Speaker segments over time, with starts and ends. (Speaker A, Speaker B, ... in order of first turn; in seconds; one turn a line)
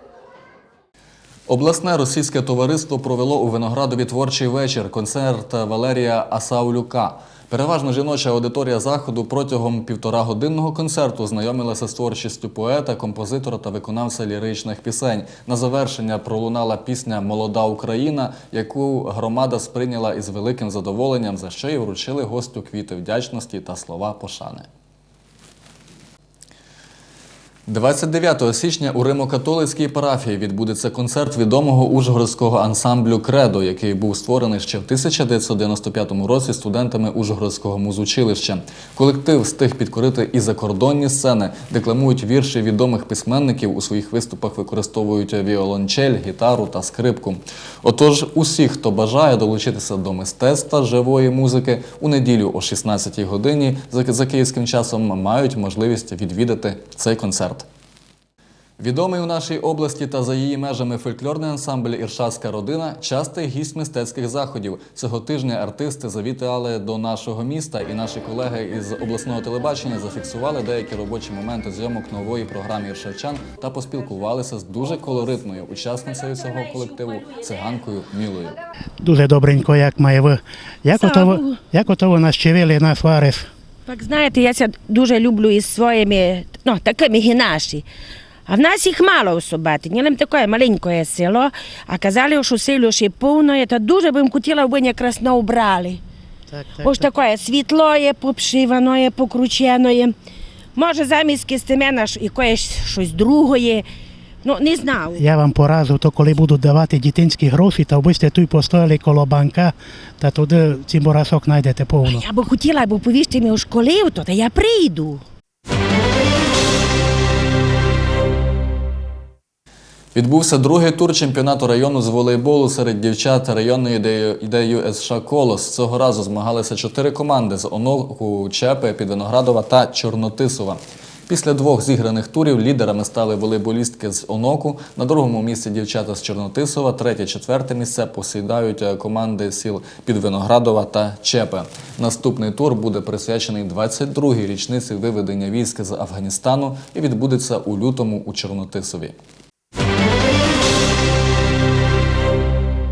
Speaker A: 1.5-24.7
Speaker A: 27.7-57.7
Speaker A: 58.8-78.6
Speaker B: 79.0-83.5
Speaker C: 80.9-81.7
Speaker C: 83.9-87.8
Speaker C: 88.5-96.0
Speaker B: 96.5-97.1
Speaker C: 96.8-100.2
Speaker C: 100.8-103.9
Speaker C: 104.4-105.2
Speaker B: 105.2-112.2
Speaker C: 112.0-115.2
Speaker A: 120.2-149.2